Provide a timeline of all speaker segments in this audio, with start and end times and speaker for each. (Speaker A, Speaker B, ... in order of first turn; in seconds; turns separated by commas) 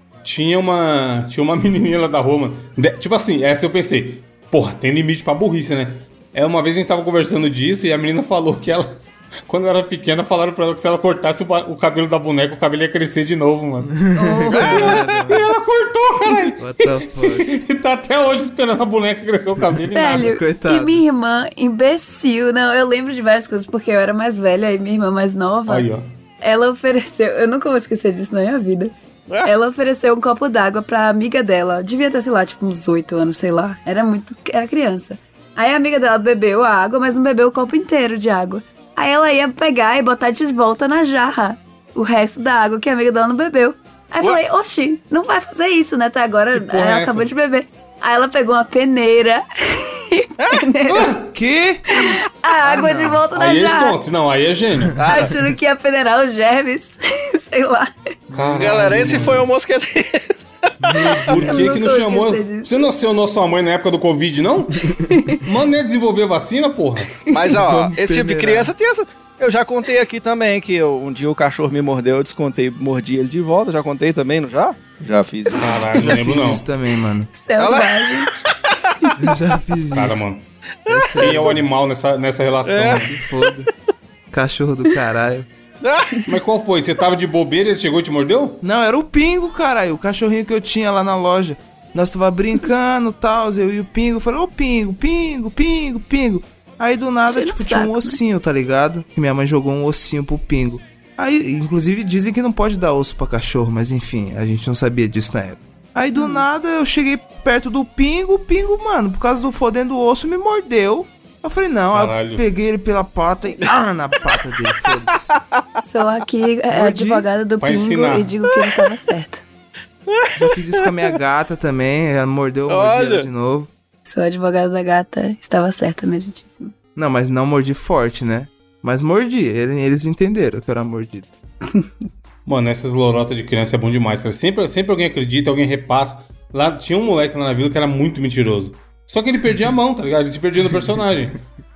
Speaker A: 0.2-20.3, Speaker B: 13.9-15.5, Speaker C: 14.1-15.0, Speaker D: 14.5-15.0, Speaker B: 16.6-17.6, Speaker C: 19.9-25.9, Speaker B: 20.1-21.0, Speaker A: 25.7-26.1, Speaker C: 26.4-51.2, Speaker A: 46.5-47.3, Speaker A: 50.9-51.3, Speaker B: 51.3-52.0, Speaker C: 51.9-54.0, Speaker B: 52.6-53.2, Speaker A: 53.3-55.0, Speaker D: 55.0-55.3, Speaker C: 55.0-57.9, Speaker B: 58.3-59.4, Speaker A: 58.3-59.5, Speaker D: 58.5-61.4, Speaker B: 60.8-61.8, Speaker A: 61.0-67.2, Speaker C: 61.4-62.9, Speaker C: 65.1-65.4, Speaker D: 67.3-75.9, Speaker B: 67.5-68.7, Speaker A: 75.6-76.6, Speaker B: 75.9-77.3, Speaker C: 77.3-78.3, Speaker D: 77.6-79.1, Speaker B: 79.2-80.2, Speaker A: 79.9-80.4, Speaker B: 80.9-81.7, Speaker A: 81.2-83.2, Speaker D: 82.7-83.1, Speaker B: 82.9-83.7, Speaker B: 84.3-85.5, Speaker D: 85.8-86.3, Speaker A: 86.2-88.6, Speaker B: 88.6-115.3, Speaker C: 97.3-98.2, Speaker C: 106.2-106.4, Speaker A: 111.9-112.4, Speaker D: 115.3-115.6, Speaker C: 115.8-119.4, Speaker B: 116.7-117.3, Speaker A: 117.6-118.3, Speaker D: 120.1-120.9, Speaker B: 120.3-123.7, Speaker D: 122.7-123.3, Speaker C: 124.0-126.7, Speaker B: 127.0-131.3, Speaker A: 132.4-141.4